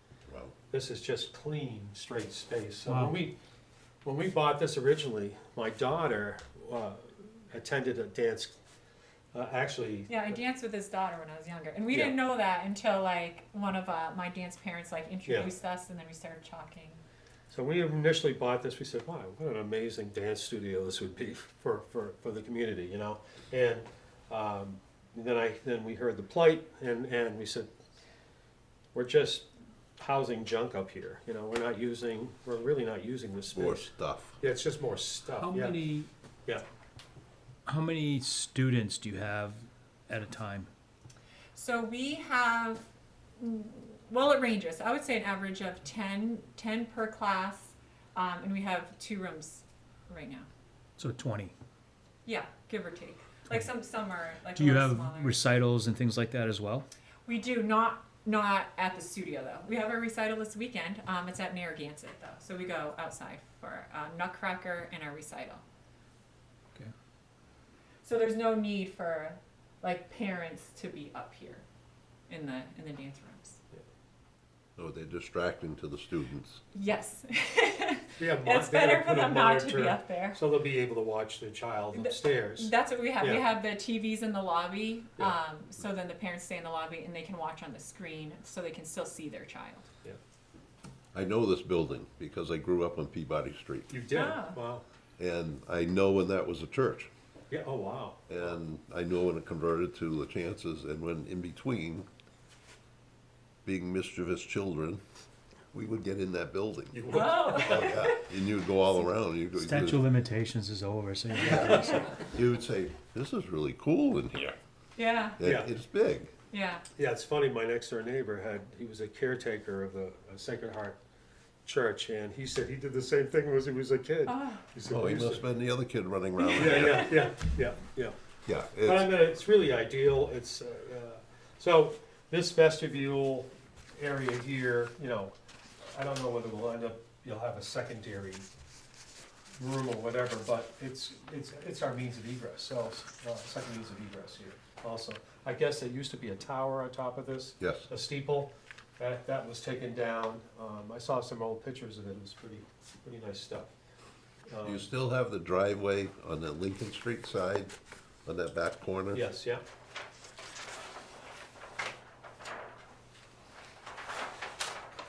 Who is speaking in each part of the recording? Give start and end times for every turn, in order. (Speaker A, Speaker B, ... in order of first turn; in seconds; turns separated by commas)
Speaker A: 0.3-0.5, Speaker B: 0.7-3.4, Speaker C: 2.9-3.2, Speaker B: 4.0-8.6, Speaker B: 9.3-10.4, Speaker D: 10.1-17.0, Speaker B: 15.2-15.5, Speaker B: 17.5-27.7, Speaker B: 28.9-29.5, Speaker B: 30.0-33.9, Speaker A: 33.5-34.4, Speaker B: 34.4-35.8, Speaker C: 35.3-36.1, Speaker C: 37.7-40.7, Speaker D: 41.5-42.9, Speaker D: 43.4-50.5, Speaker C: 51.0-51.5, Speaker D: 52.2-55.4, Speaker C: 54.5-56.9, Speaker D: 57.2-65.6, Speaker D: 68.0-71.6, Speaker D: 72.3-73.6, Speaker A: 74.8-76.6, Speaker D: 76.7-80.4, Speaker B: 78.2-83.5, Speaker D: 81.9-89.9, Speaker A: 91.1-93.9, Speaker B: 93.9-94.8, Speaker D: 94.1-94.6, Speaker A: 95.2-97.1, Speaker B: 97.5-98.2, Speaker A: 98.3-102.1, Speaker A: 103.6-105.0, Speaker A: 105.7-110.0, Speaker B: 106.9-107.9, Speaker D: 107.1-108.3, Speaker C: 109.5-112.1, Speaker A: 111.4-114.5, Speaker D: 111.5-112.2, Speaker D: 115.0-115.4, Speaker A: 115.4-116.3, Speaker B: 115.4-115.7, Speaker D: 116.5-116.8, Speaker B: 117.0-121.0, Speaker B: 121.6-125.5, Speaker D: 124.3-124.6, Speaker A: 124.9-127.2, Speaker D: 126.4-126.8, Speaker B: 126.5-128.2, Speaker A: 128.5-129.1, Speaker B: 128.8-138.5, Speaker B: 139.6-153.7, Speaker A: 147.6-147.9, Speaker B: 154.5-154.9, Speaker A: 154.6-159.2, Speaker B: 159.1-159.6